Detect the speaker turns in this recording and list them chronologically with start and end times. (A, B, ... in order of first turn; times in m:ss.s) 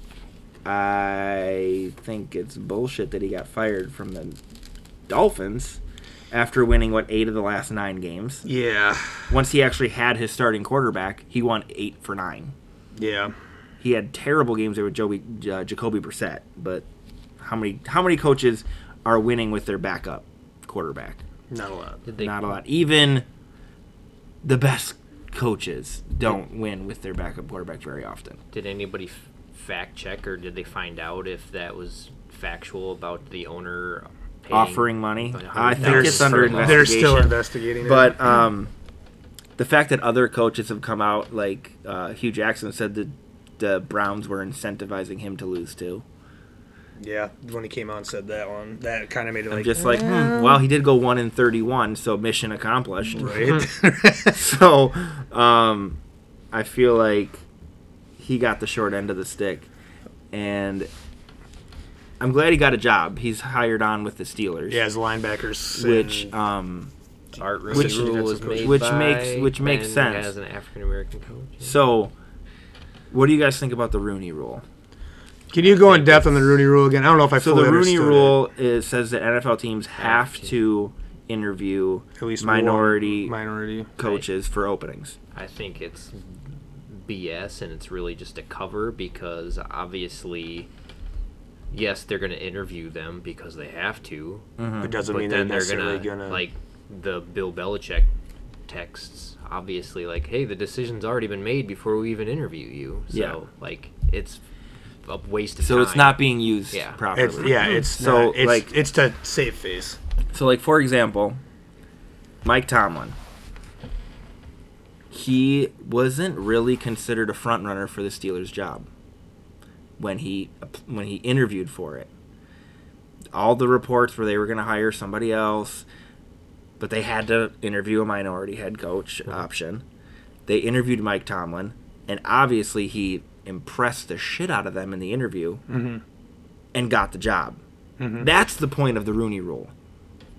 0:00.6-0:04.4 A
0:05.1-0:05.8 A
0:06.3-0:08.4 A
0:08.4-0:09.2 B
0:09.3-0:12.5 A
0:13.0-0:13.3 B
0:13.8-0:16.8 A
0:17.4-0:21.2 A
0:21.5-0:22.0 B
0:22.1-0:22.5 C
0:22.2-0:23.2 A
0:24.4-0:28.4 A
0:28.5-0:36.9 C
0:34.5-0:38.7 A
0:35.8-0:38.2 B
0:39.6-0:46.0 A
0:47.0-0:50.6 B
0:49.5-0:53.6 A
0:53.2-0:54.4 B
0:54.3-0:56.0 A
0:56.5-0:57.4 A
0:58.2-0:59.7 A
1:00.3-1:00.9 A
1:02.2-1:04.8 A
1:04.7-1:06.3 B
1:05.7-1:06.9 A
1:07.4-1:11.8 C
1:07.7-1:08.9 B
1:07.7-1:10.3 A
1:11.6-1:12.1 A
1:13.1-1:14.6 A
1:15.5-1:18.4 B
1:15.6-1:16.4 C
1:17.4-1:23.4 A
1:20.0-1:20.5 C
1:22.2-1:23.9 B
1:24.0-1:25.2 A
1:25.3-1:26.2 C
1:26.9-1:30.7 C
1:31.7-1:34.5 C
1:34.6-1:35.0 A
1:34.8-1:36.4 B
1:35.1-1:38.1 C
1:38.7-1:44.4 C
1:43.1-1:43.4 A
1:45.0-1:47.6 C
1:45.6-1:48.7 A
1:47.1-1:50.0 B
1:50.3-1:51.4 A
1:52.4-1:53.2 A
1:55.1-1:58.9 A
2:00.0-2:02.1 A
2:03.3-2:05.8 A
2:06.8-2:09.8 A
2:10.5-2:15.6 A
2:15.7-2:16.0 B
2:16.7-2:17.6 A
2:18.0-2:18.3 B
2:18.2-2:19.7 A